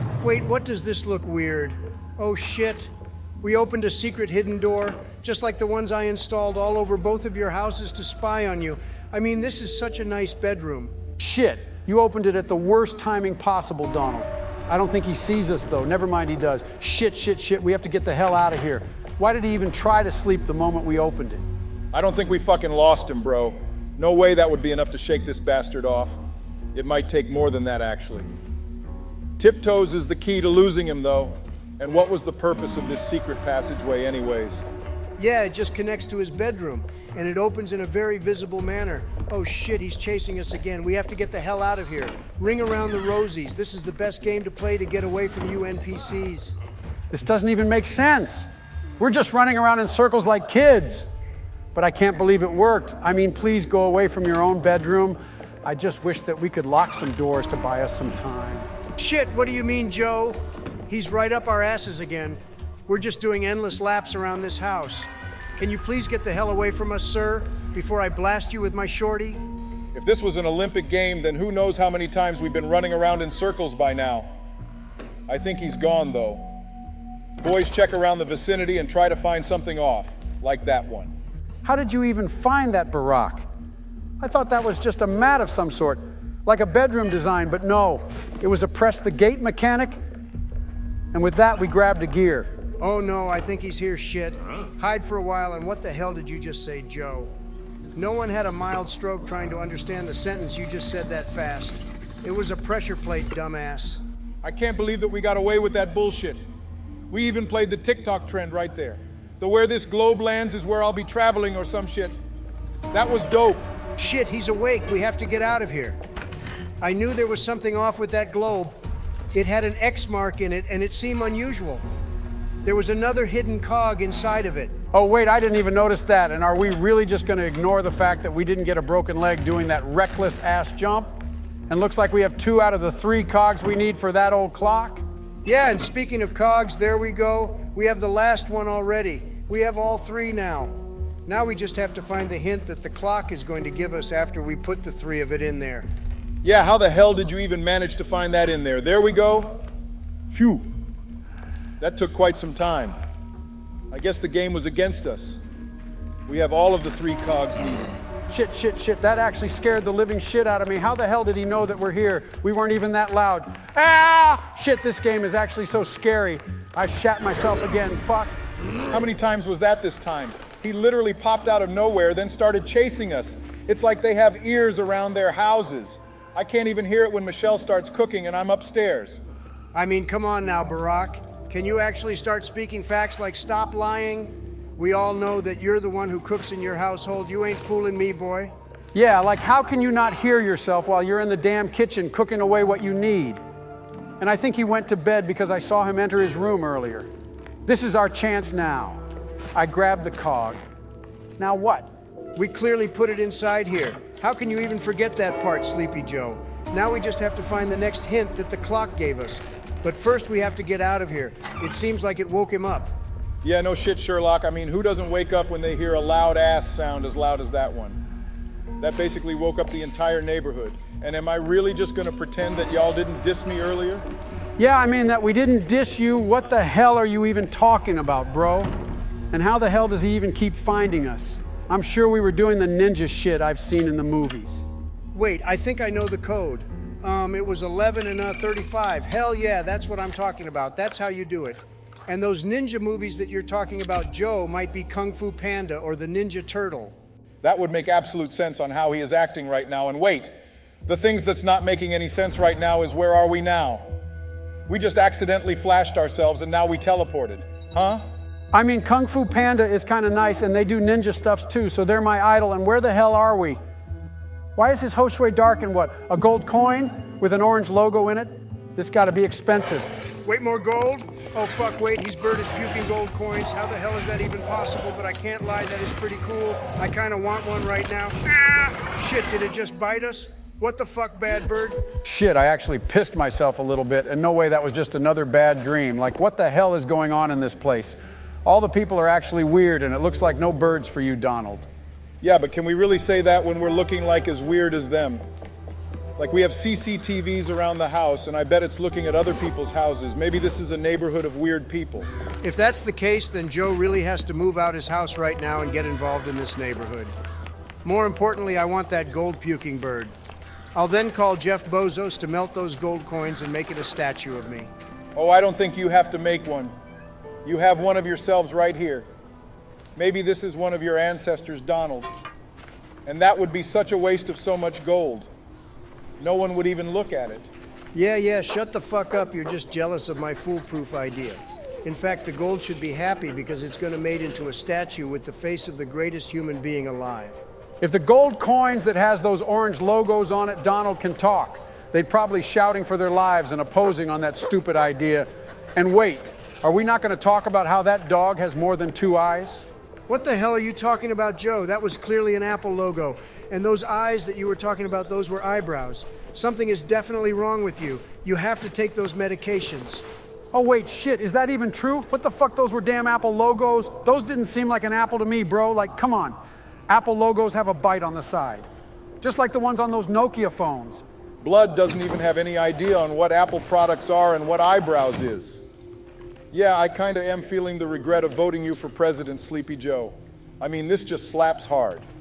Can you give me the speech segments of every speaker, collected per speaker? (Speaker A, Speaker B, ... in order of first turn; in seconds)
Speaker A: 0.2-2.9, 3.4-10.9, 35.2-46.5, 59.0-69.4, 92.8-97.3, 98.0-104.0, 114.0-116.0, 116.8-118.8, 119.3-121.8, 122.7-124.8, 135.4-140.7, 141.3-145.9, 179.7-188.5, 202.4-212.9, 235.1-246.9, 270.2-281.8, 302.4-307.1, 307.8-310.1, 310.8-314.7, 327.9-337.4, 350.1-360.0
Speaker B: 11.2-21.4, 47.1-48.5, 49.0-51.1, 51.8-58.7, 81.6-83.5, 84.2-90.0, 91.1-92.5, 124.9-131.1, 131.7-135.0, 158.3-168.3, 188.9-193.4, 194.2-197.1, 197.7-199.0, 199.6-200.6, 201.4-201.9, 224.6-228.7, 229.3-234.6, 258.5-263.6, 264.6-269.9, 282.0-291.7, 337.8-349.7, 360.5-366.4, 366.9-368.7, 369.2-371.0
Speaker C: 21.9-26.2, 26.7-28.3, 29.4-34.6, 70.0-74.3, 75.3-76.5, 77.4-81.1, 104.4-106.4, 107.1-112.2, 112.9-113.7, 146.4-149.6, 150.3-150.7, 151.8-153.0, 153.9-155.4, 156.3-157.9, 168.9-179.2, 213.4-218.0, 218.8-224.1, 247.4-250.3, 250.9-253.8, 254.7-258.1, 292.2-295.2, 296.2-302.1, 315.2-316.7, 317.4-319.1, 319.9-322.1, 323.1-325.3, 326.2-327.5, 371.4-375.6, 376.5-382.0